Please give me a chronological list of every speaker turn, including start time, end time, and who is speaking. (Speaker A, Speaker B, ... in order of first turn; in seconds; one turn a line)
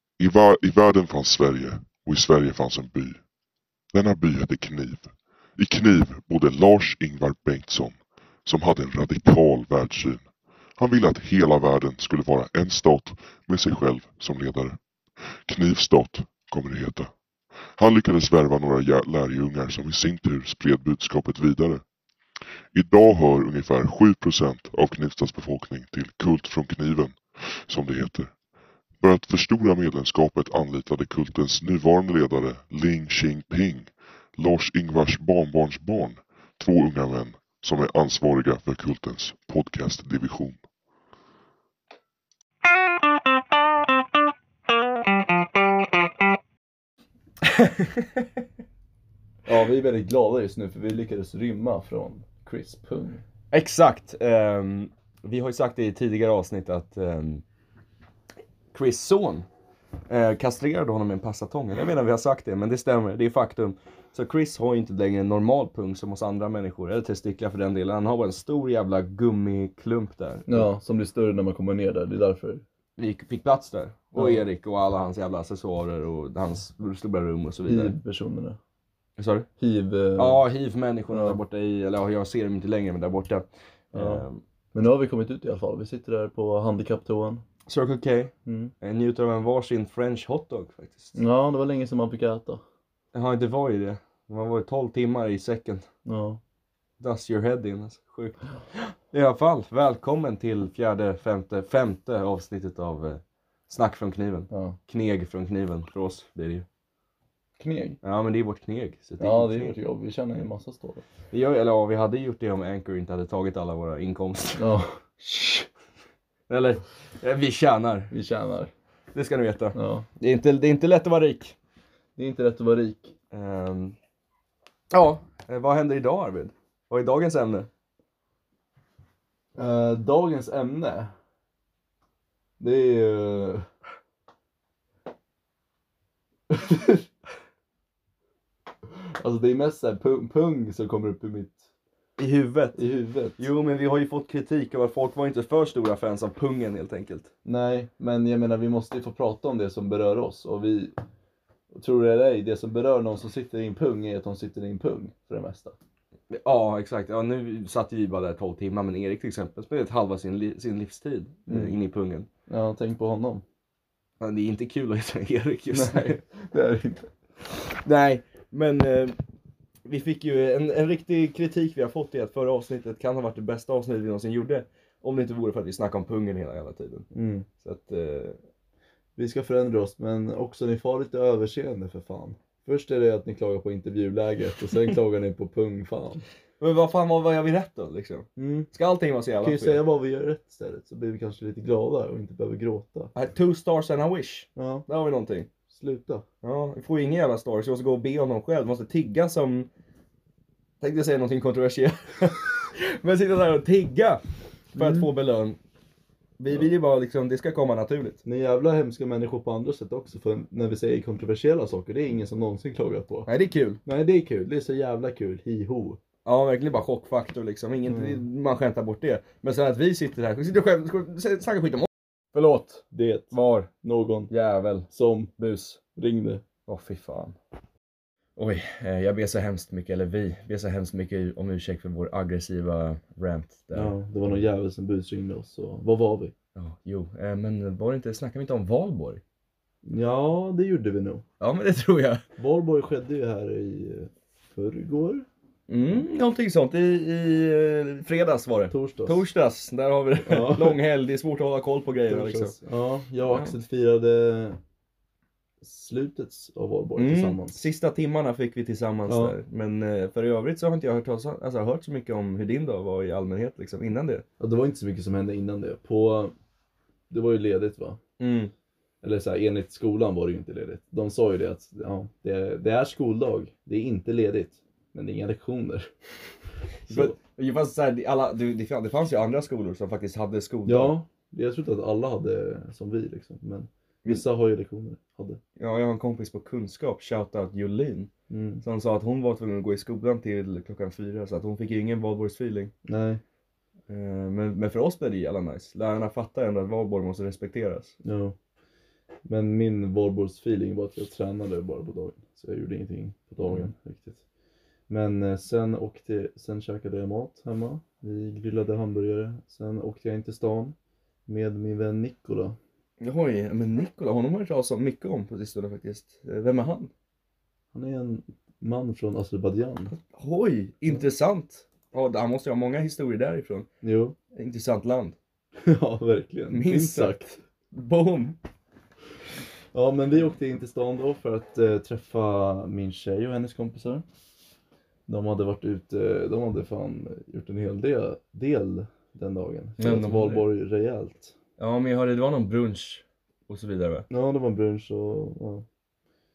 Speaker A: 0.2-3.2
Speaker A: 3.9-14.8
Speaker A: 15.4-17.1
Speaker A: 17.8-21.8
Speaker A: 22.7-28.3
Speaker A: 29.0-40.6
Speaker B: 49.5-53.2
Speaker C: 53.5-57.4
Speaker C: 58.7-59.5
Speaker C: 60.1-70.7
Speaker B: 70.5-72.6
Speaker C: 73.0-78.0
Speaker B: 74.2-74.4
Speaker B: 77.7-78.6
Speaker C: 79.2-79.5
Speaker B: 79.6-80.4
Speaker C: 80.2-84.4
Speaker B: 81.1-81.4
Speaker B: 83.9-87.4
Speaker C: 87.7-91.2
Speaker B: 88.5-88.7
Speaker B: 91.2-92.6
Speaker C: 93.1-95.9
Speaker B: 96.0-96.4
Speaker C: 97.0-106.7
Speaker B: 104.5-104.8
Speaker B: 107.6-108.0
Speaker C: 108.0-109.8
Speaker B: 109.2-111.0
Speaker C: 111.3-114.7
Speaker B: 114.6-115.0
Speaker C: 115.2-115.7
Speaker C: 116.5-118.1
Speaker B: 118.1-118.7
Speaker C: 119.1-121.5
Speaker B: 119.7-120.0
Speaker B: 122.2-123.1
Speaker C: 123.3-124.0
Speaker C: 124.9-127.7
Speaker B: 129.6-131.1
Speaker B: 132.6-133.7
Speaker B: 136.5-137.1
Speaker B: 139.2-141.7
Speaker C: 142.2-142.8
Speaker B: 142.7-143.4
Speaker C: 143.4-147.3
Speaker B: 147.4-150.9
Speaker B: 151.7-155.8
Speaker C: 156.3-162.3
Speaker B: 161.5-161.8
Speaker B: 162.5-163.4
Speaker C: 164.2-166.2
Speaker B: 165.7-167.1
Speaker C: 167.5-169.2
Speaker C: 169.8-177.1
Speaker B: 177.1-177.5
Speaker C: 177.6-178.4
Speaker B: 179.2-186.2
Speaker C: 186.6-189.8
Speaker B: 188.3-188.7
Speaker B: 189.4-193.1
Speaker C: 193.1-195.5
Speaker B: 194.6-194.8
Speaker B: 195.7-196.2
Speaker C: 196.4-199.7
Speaker C: 200.8-204.2
Speaker C: 204.7-205.6
Speaker B: 204.7-205.1
Speaker C: 206.4-208.2
Speaker B: 208.2-213.3
Speaker C: 213.2-213.8
Speaker B: 213.8-216.0
Speaker C: 216.2-223.7
Speaker B: 217.9-218.2
Speaker B: 222.9-224.3
Speaker C: 224.3-225.8
Speaker B: 224.9-225.3
Speaker B: 225.9-226.4
Speaker C: 226.7-227.4
Speaker C: 228.3-234.0
Speaker B: 233.7-236.3
Speaker C: 236.5-239.2
Speaker B: 239.8-241.2
Speaker C: 241.4-242.2
Speaker B: 242.4-245.2
Speaker C: 245.7-252.6
Speaker B: 248.7-249.2
Speaker B: 250.2-250.8
Speaker B: 252.1-254.6
Speaker C: 253.3-253.6
Speaker B: 255.6-257.6
Speaker C: 257.0-264.2
Speaker B: 259.1-259.4
Speaker B: 264.4-266.3
Speaker B: 267.1-268.0
Speaker C: 268.2-268.5
Speaker B: 269.0-275.9
Speaker C: 276.9-280.9
Speaker B: 276.9-277.1
Speaker B: 280.6-285.4
Speaker C: 285.6-288.1
Speaker B: 288.3-288.6
Speaker C: 288.6-292.7
Speaker B: 292.8-293.2
Speaker C: 293.9-297.9
Speaker B: 298.0-298.4
Speaker B: 299.2-304.2
Speaker C: 303.4-303.7
Speaker B: 304.9-310.7
Speaker B: 311.2-312.6
Speaker C: 313.0-316.9
Speaker B: 317.7-319.9
Speaker C: 319.9-323.7
Speaker B: 323.8-324.1
Speaker C: 324.3-325.2
Speaker B: 325.6-327.3
Speaker C: 326.5-328.4
Speaker B: 329.7-334.0
Speaker B: 335.1-341.3
Speaker C: 339.8-340.5
Speaker C: 341.6-344.1
Speaker B: 344.1-345.6